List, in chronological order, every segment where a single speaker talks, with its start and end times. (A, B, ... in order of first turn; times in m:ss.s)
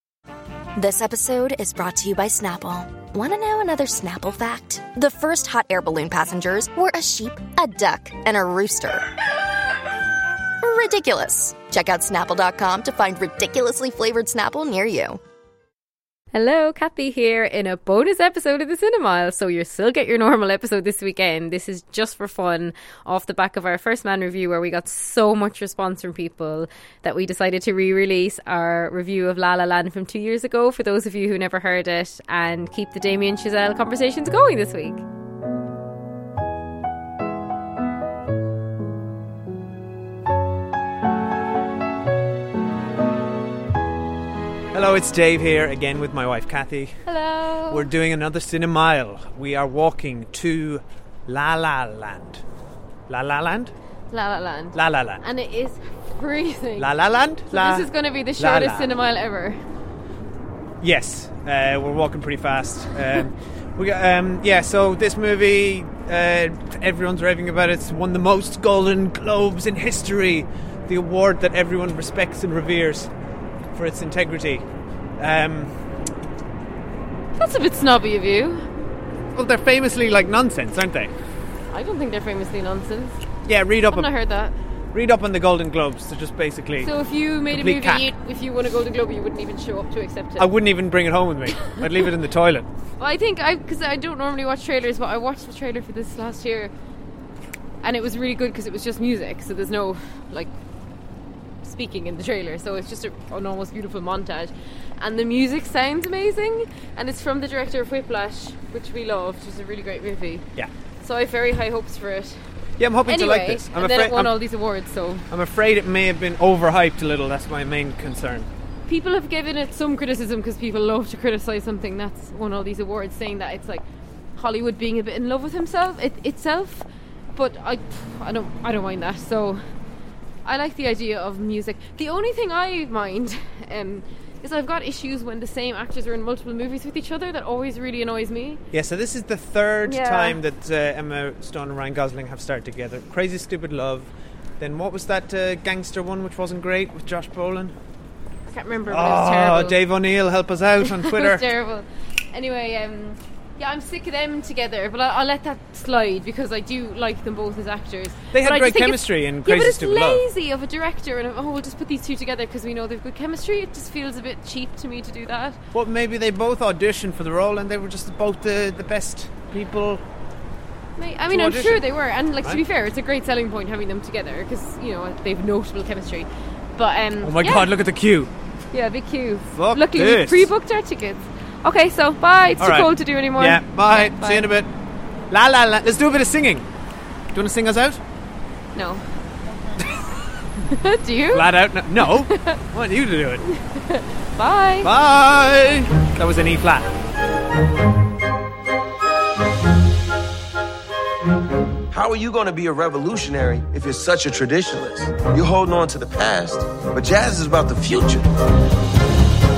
0:00.8-0:09.1 A
0:10.6-0:15.2 A
0:16.3-0:35.0 B
0:44.7-0:47.0 C
0:47.0-0:47.9 B
0:47.7-0:52.4 C
0:53.1-0:53.7 C
0:54.1-0:56.9 B
0:54.7-0:55.2 C
0:56.8-0:58.9 C
0:57.5-0:59.6 B
1:00.8-1:13.1 C
1:13.7-1:14.6 C
1:15.2-1:15.7 C
1:17.3-1:18.7 B
1:19.3-1:21.1 C
1:21.7-1:23.2 B
1:23.4-1:24.1 C
1:23.9-1:24.6 B
1:24.9-1:26.9 C
1:26.8-1:30.5 B
1:27.5-1:28.0 C
1:30.4-1:32.7 C
1:31.6-1:32.1 B
1:33.0-1:36.7 B
1:37.8-1:40.5 B
1:41.6-1:50.5 B
1:51.0-1:52.4 B
1:52.8-1:54.3 C
1:53.1-1:55.2 B
1:55.3-1:58.5 C
1:58.9-2:03.8 B
2:04.4-2:09.6 B
2:10.4-2:18.6 B
2:18.7-2:27.8 C
2:19.8-2:20.4 B
2:28.5-2:29.8 B
2:28.9-2:31.5 C
2:30.8-2:45.6 B
2:38.3-2:40.2 C
2:45.7-2:50.0 C
2:51.0-2:57.7 B
2:51.3-2:51.8 C
2:57.2-2:58.3 C
2:58.7-3:04.5 B
2:59.5-3:00.5 C
3:02.6-3:04.7 C
3:05.3-3:06.7 C
3:07.3-3:08.0 C
3:08.7-3:09.0 B
3:09.8-3:10.1 C
3:10.7-3:12.6 B
3:11.3-3:13.5 C
3:13.5-3:14.9 B
3:14.8-3:17.0 C
3:21.9-3:28.3 D